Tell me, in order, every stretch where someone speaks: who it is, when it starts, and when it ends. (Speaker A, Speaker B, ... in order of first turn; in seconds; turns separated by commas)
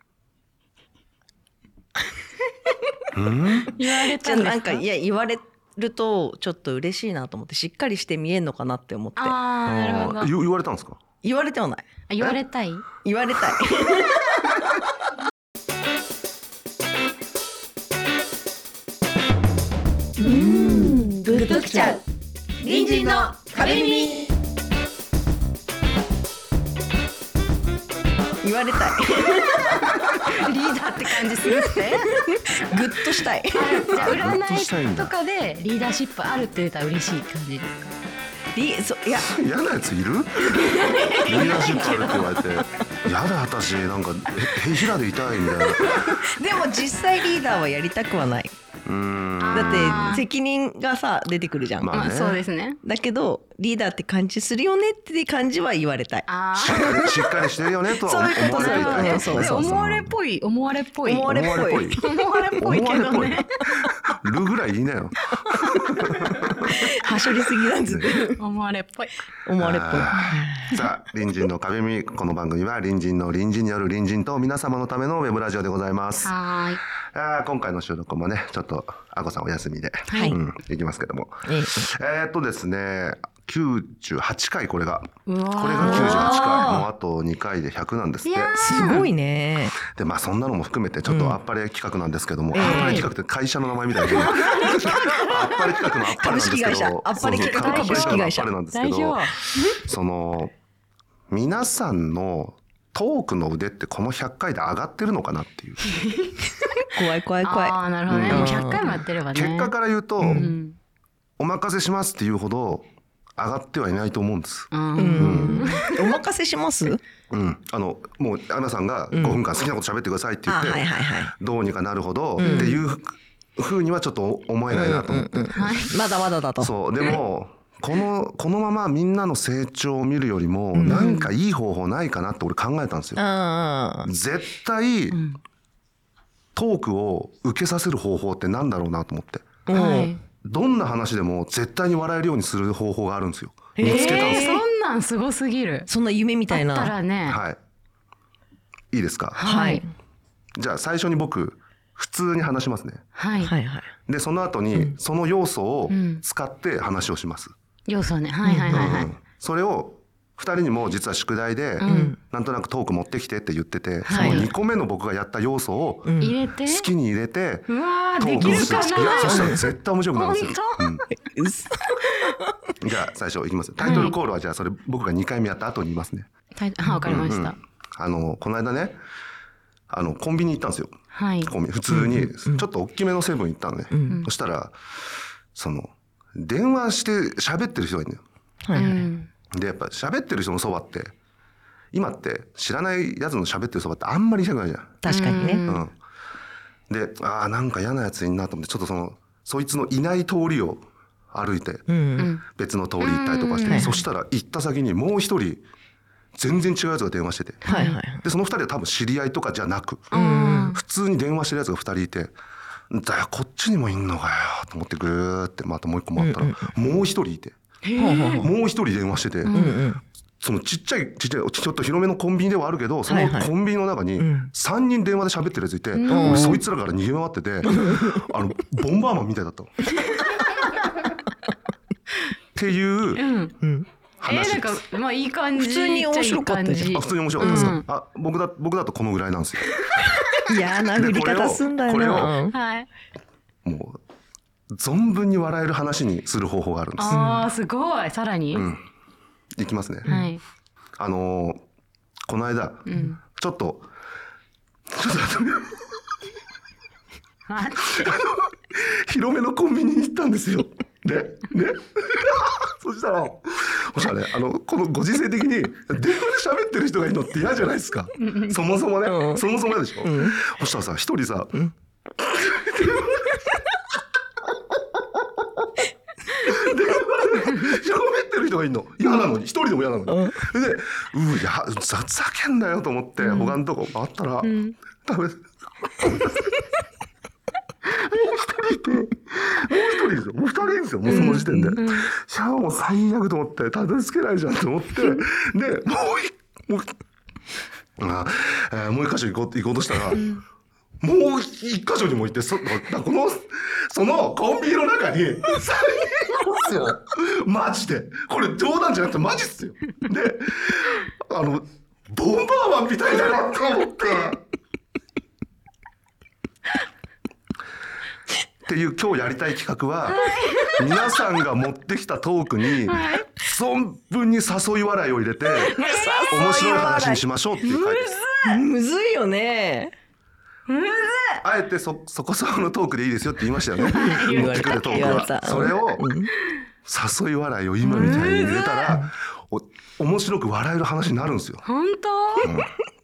Speaker A: 3.1-3.7, Speaker B: 3.7-4.8, Speaker C: 4.1-9.4, Speaker B: 9.2-10.3, Speaker A: 9.7-11.0, Speaker C: 11.2-11.9, Speaker B: 12.1-12.9, Speaker C: 13.0-14.8, Speaker C: 20.2-22.0, Speaker C: 22.6-24.3, Speaker C: 28.4-29.9, Speaker B: 29.9-32.2, Speaker C: 31.4-34.2, Speaker B: 33.5-37.9, Speaker A: 33.9-35.1, Speaker C: 38.5-39.3, Speaker A: 39.2-46.0, Speaker C: 40.4-42.6, Speaker C: 45.5-48.5, Speaker A: 48.9-50.2, Speaker B: 49.4-50.3, Speaker C: 49.5-52.0, Speaker A: 51.8-52.4, Speaker B: 51.9-52.8, Speaker C: 52.8-57.2, Speaker B: 56.3-57.2, Speaker A: 56.5-60.2, Speaker C: 57.9-59.7, Speaker B: 58.3-61.4, Speaker C: 61.0-63.4, Speaker A: 61.3-62.0, Speaker B: 62.0-63.9, Speaker A: 62.6-63.5, Speaker A: 64.1-66.8, Speaker B: 65.4-66.4, Speaker C: 66.6-68.4, Speaker A: 67.9-68.1, Speaker B: 68.4-69.2, Speaker C: 69.5-70.8, Speaker A: 69.6-76.3, Speaker B: 76.2-76.8, Speaker A: 77.1-88.5, Speaker B: 80.1-80.4, Speaker C: 80.1-80.4, Speaker C: 81.5-81.9, Speaker B: 85.3-86.7, Speaker C: 85.8-86.9, Speaker B: 88.2-89.1, Speaker C: 88.5-89.8, Speaker A: 89.9-100.5, Speaker C: 91.1-91.4, Speaker C: 92.5-93.1, Speaker B: 92.6-93.1, Speaker C: 94.1-95.5, Speaker C: 96.1-98.5, Speaker B: 97.2-99.4, Speaker A: 101.3-105.9, Speaker B: 105.9-106.5, Speaker C: 106.9-109.0, Speaker B: 107.4-109.7, Speaker A: 108.1-108.7, Speaker A: 109.3-110.5, Speaker C: 110.2-110.5, Speaker B: 110.3-110.8, Speaker A: 111.4-115.8, Speaker B: 114.7-116.1, Speaker C: 115.0-117.0, Speaker A: 117.3-125.5, Speaker C: 119.1-119.4, Speaker C: 120.5-121.3, Speaker C: 122.4-122.8, Speaker B: 122.4-122.8, Speaker C: 124.7-127.2, Speaker B: 125.5-126.0, Speaker A: 126.6-133.2, Speaker C: 130.7-131.3, Speaker B: 130.8-131.3, Speaker C: 133.2-134.1, Speaker A: 134.1-135.2, Speaker B: 135.1-135.4, Speaker A: 136.6-139.5, Speaker C: 139.7-140.2, Speaker B: 139.7-140.2, Speaker A: 140.4-144.5, Speaker C: 143.8-144.6, Speaker B: 143.8-145.9, Speaker C: 145.9-146.9, Speaker B: 146.5-147.4, Speaker A: 147.3-147.6, Speaker A: 148.9-149.4, Speaker B: 149.4-149.8, Speaker C: 149.4-149.9, Speaker A: 150.6-153.0, Speaker B: 153.2-153.5, Speaker C: 153.4-153.9, Speaker A: 154.1-157.5, Speaker B: 155.9-156.2, Speaker B: 157.9-159.1, Speaker C: 158.4-159.0, Speaker A: 158.7-171.0, Speaker B: 161.8-162.2, Speaker C: 161.9-162.2, Speaker B: 164.1-164.5, Speaker C: 164.1-164.5, Speaker C: 166.1-166.4, Speaker B: 166.2-166.9, Speaker B: 167.7-171.1, Speaker C: 168.4-169.6, Speaker C: 171.2-172.5, Speaker A: 172.8-176.3, Speaker B: 173.8-174.2, Speaker C: 173.9-174.1, Speaker B: 176.6-177.6, Speaker A: 177.0-179.0, Speaker A: 179.9-184.8, Speaker B: 181.1-181.5, Speaker C: 181.9-182.7, Speaker C: 183.9-184.2, Speaker A: 185.5-188.2, Speaker C: 188.6-189.1, Speaker B: 188.7-189.3, Speaker A: 189.5-191.1, Speaker A: 191.9-195.0, Speaker C: 195.0-195.6, Speaker B: 195.1-195.9, Speaker A: 195.7-195.9, Speaker A: 196.9-201.9, Speaker C: 201.9-202.3, Speaker B: 202.2-202.4, Speaker A: 202.5-205.7, Speaker B: 203.0-204.0, Speaker C: 203.7-204.0, Speaker A: 206.4-207.7, Speaker B: 207.6-208.0, Speaker C: 207.7-208.2, Speaker A: 208.2-210.1, Speaker B: 210.1-210.8, Speaker C: 210.1-210.8, Speaker A: 210.7-212.3, Speaker A: 212.9-217.5, Speaker C: 216.2-216.7, Speaker B: 217.8-218.5, Speaker C: 218.0-218.5, Speaker A: 218.4-219.6, Speaker B: 219.4-219.8, Speaker C: 219.5-220.0, Speaker A: 220.4-230.2, Speaker C: 223.1-223.5, Speaker C: 224.2-224.5, Speaker B: 225.9-226.6, Speaker C: 226.1-226.6, Speaker C: 227.7-228.2, Speaker A: 232.6-233.2, Speaker B: 233.2-233.6, Speaker C: 233.6-233.9, Speaker A: 234.2-234.8, Speaker B: 234.2-237.9, Speaker C: 235.6-237.8, Speaker A: 236.9-239.8, Speaker B: 239.9-240.4, Speaker C: 240.4-242.6, Speaker A: 240.9-242.4, Speaker B: 242.5-242.9, Speaker A: 243.7-244.0, Speaker A: 244.8-247.2, Speaker B: 247.0-248.7, Speaker C: 247.1-247.5, Speaker A: 248.5-248.8, Speaker A: 249.6-250.2, Speaker B: 250.1-250.4, Speaker A: 251.0-251.6, Speaker A: 252.3-253.9, Speaker B: 252.9-253.2, Speaker A: 254.9-255.8, Speaker B: 257.5-258.2, Speaker A: 257.9-271.6, Speaker B: 268.2-268.6, Speaker C: 269.1-269.5, Speaker C: 270.0-270.5, Speaker A: 272.2-273.4, Speaker A: 276.3-286.5, Speaker C: 280.1-280.5, Speaker B: 283.3-283.5, Speaker B: 284.4-284.8, Speaker A: 288.0-296.9, Speaker B: 291.1-292.1, Speaker C: 291.1-291.8, Speaker A: 298.0-300.4, Speaker B: 300.1-300.4, Speaker A: 301.0-314.4, Speaker A: 318.6-328.2, Speaker B: 320.1-321.0, Speaker B: 322.9-323.3, Speaker C: 325.6-329.9, Speaker B: 325.7-326.4, Speaker B: 328.2-328.6, Speaker B: 330.7-331.4, Speaker A: 331.4-336.1, Speaker B: 333.8-335.3, Speaker C: 334.1-336.3, Speaker A: 336.9-341.6, Speaker B: 337.8-338.7, Speaker C: 337.9-339.1, Speaker B: 341.6-342.5, Speaker A: 342.4-342.7